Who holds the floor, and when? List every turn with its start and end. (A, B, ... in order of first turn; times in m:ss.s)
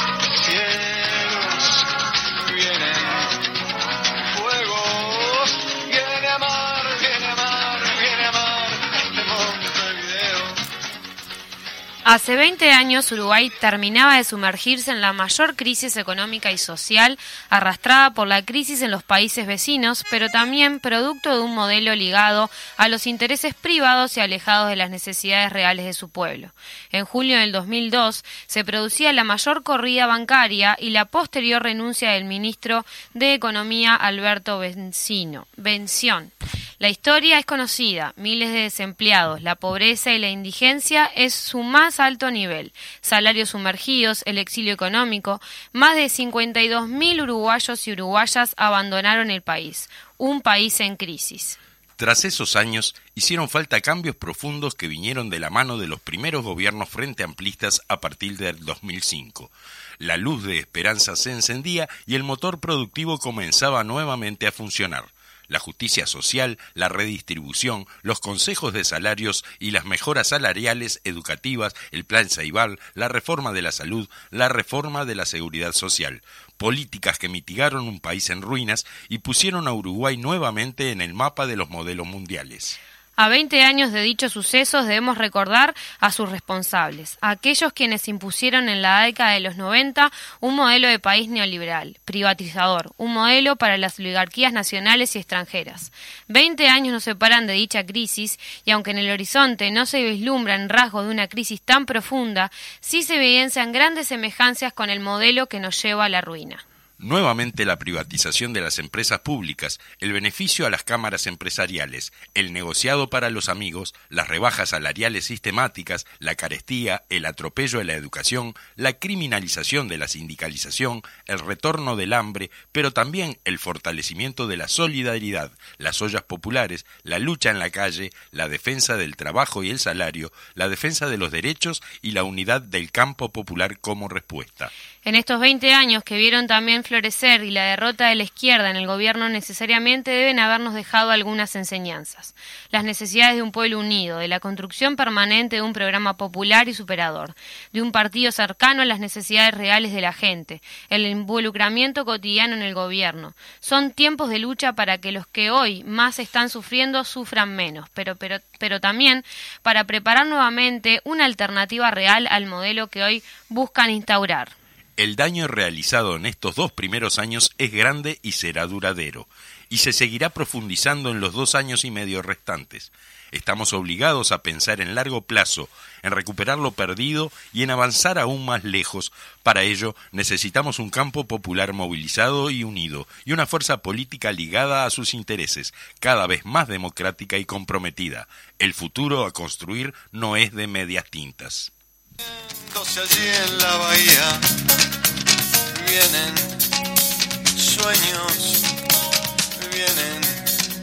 0:00.3-0:03.5 A
0:04.2-0:10.6 A
0:12.1-0:51.6 B
0:52.0-1:22.8 C
1:23.2-1:46.6 B
1:47.0-2:14.7 C
2:15.0-2:44.6 B
2:45.0-3:11.7 C
3:12.2-3:14.4 A
3:15.7-3:16.6 A
3:17.6-3:18.7 A
3:19.6-3:20.5 A